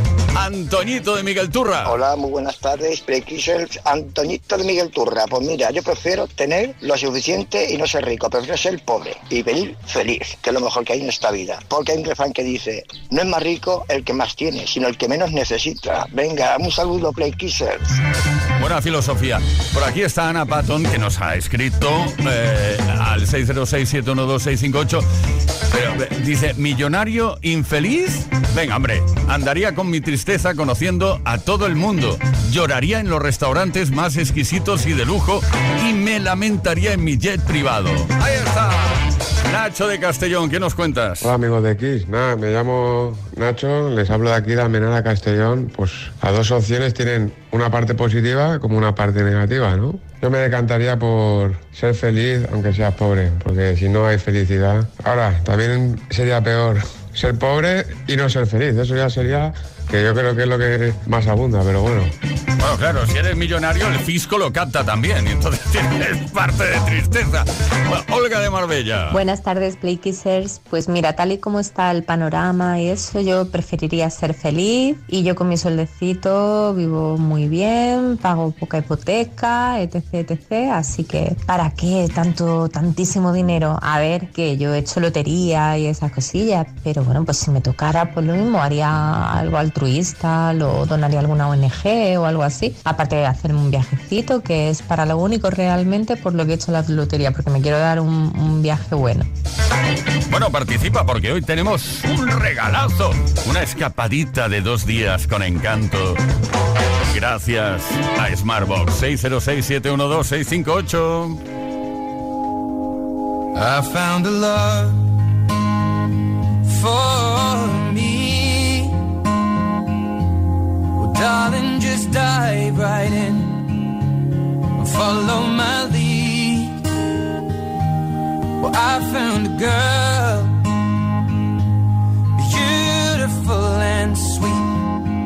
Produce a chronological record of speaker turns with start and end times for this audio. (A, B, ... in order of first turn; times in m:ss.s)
0:00.4-0:01.9 A
0:01.8-0:18.0 B
0:18.6-0:25.1 A
0:25.7-0:41.3 A
0:41.2-1:02.1 C
1:02.6-1:09.2 A
1:09.1-1:39.3 D
1:40.3-1:46.2 A
1:47.1-1:51.4 A
1:53.6-1:55.0 E
1:56.6-1:59.0 E
2:01.0-2:03.6 E
2:04.8-2:06.8 E
2:08.6-2:10.6 E
2:12.4-2:14.7 E